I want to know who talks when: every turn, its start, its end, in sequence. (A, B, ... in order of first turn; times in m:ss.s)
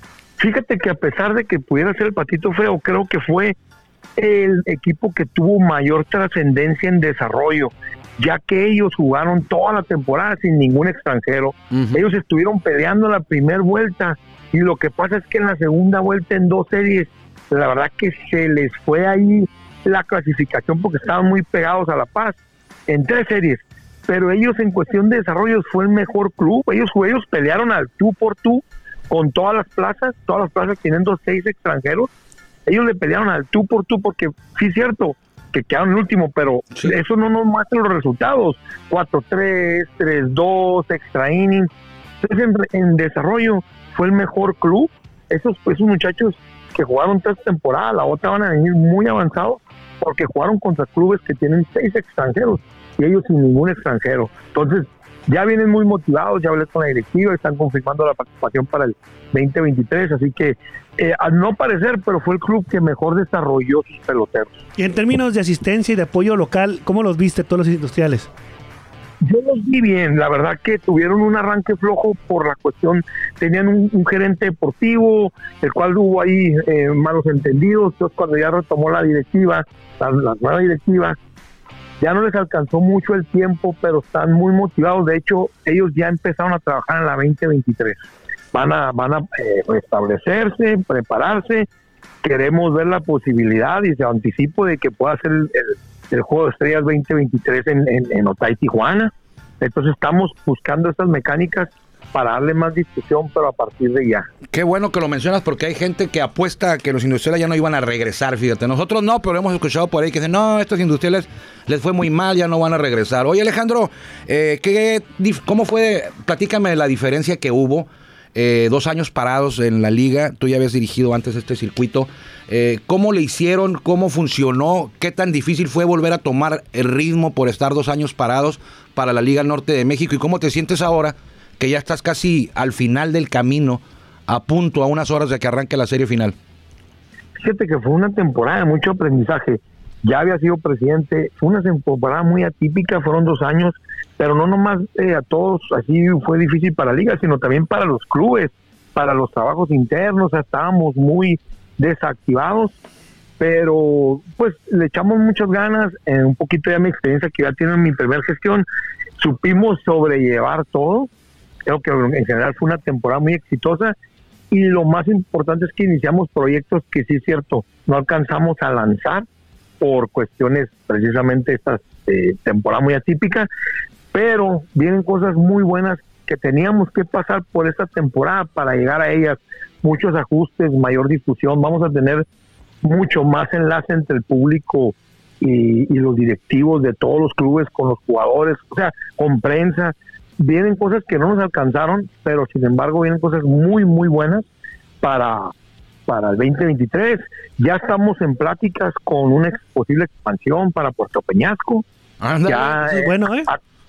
0:00.4-0:03.5 A
0:04.2-0:22.4 A
0:11.7-0:12.0 B
0:22.9-0:32.1 A
0:32.6-0:41.7 A
0:42.2-1:04.6 A
1:04.8-1:08.3 C
1:09.2-1:21.2 A
1:22.0-1:31.7 A
1:32.2-1:44.3 A
1:44.5-2:16.4 B
2:17.4-2:32.7 A
2:33.4-2:38.6 A
2:39.2-2:41.1 A
2:41.6-2:43.9 A
2:44.5-2:49.2 A
2:49.8-2:53.5 A
2:54.1-3:02.2 A
3:02.8-3:14.4 A
3:15.0-3:15.5 A
3:16.1-3:21.8 A
3:22.2-3:22.8 B
3:22.5-3:23.6 A
3:22.8-3:23.5 C